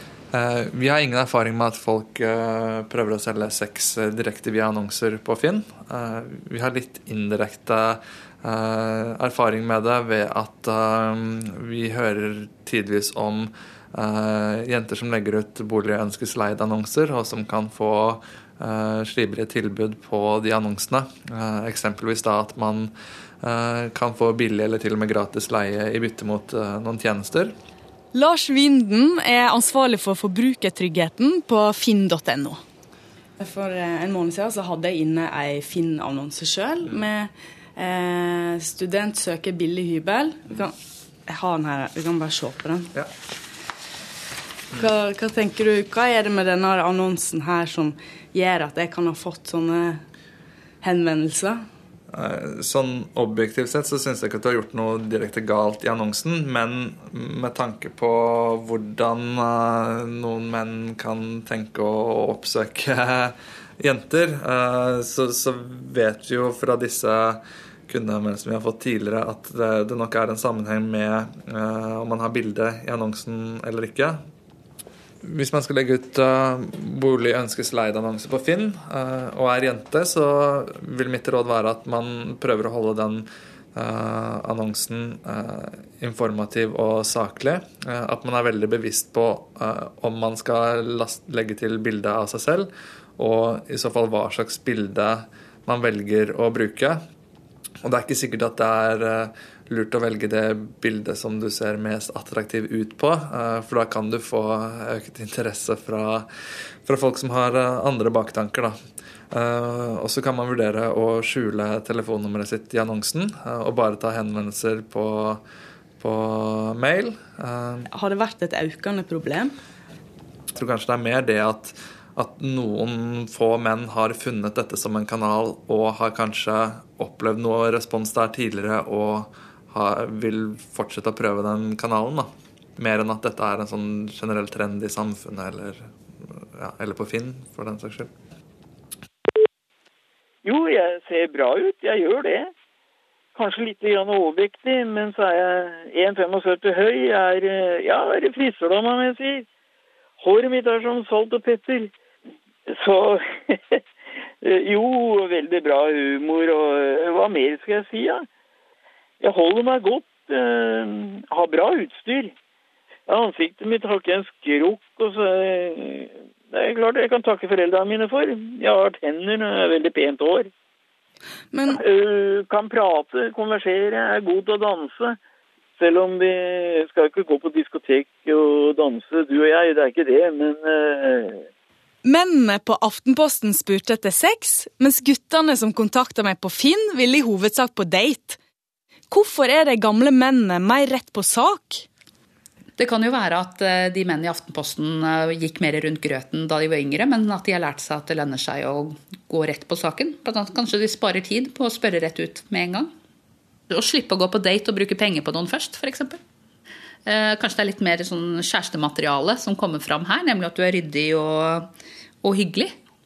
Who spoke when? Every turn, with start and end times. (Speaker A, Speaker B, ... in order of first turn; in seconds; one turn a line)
Speaker A: 0.3-27.5
Speaker B: 28.1-32.6
Speaker B: 33.4-40.8
Speaker B: 41.3-42.9
Speaker B: 44.7-50.0
Speaker B: 50.8-51.6
Speaker A: 52.1-74.2
Speaker A: 75.2-97.0
Speaker A: 97.8-106.3
Speaker A: 106.8-108.8
Speaker A: 109.3-115.4
Speaker A: 116.0-117.9
Speaker B: 117.9-119.5
Speaker A: 120.5-138.1
Speaker C: 140.4-142.5
Speaker C: 143.3-149.4
Speaker C: 150.2-151.9
Speaker C: 152.7-153.8
Speaker C: 154.4-158.3
Speaker C: 159.2-162.3
Speaker C: 163.1-170.5
Speaker B: 171.5-171.8
Speaker C: 171.7-175.2
Speaker C: 175.8-181.4
Speaker B: 182.0-188.4
Speaker B: 189.1-191.8
Speaker D: 192.8-202.9
Speaker D: 203.7-206.2
Speaker D: 207.1-211.7
Speaker D: 212.2-212.8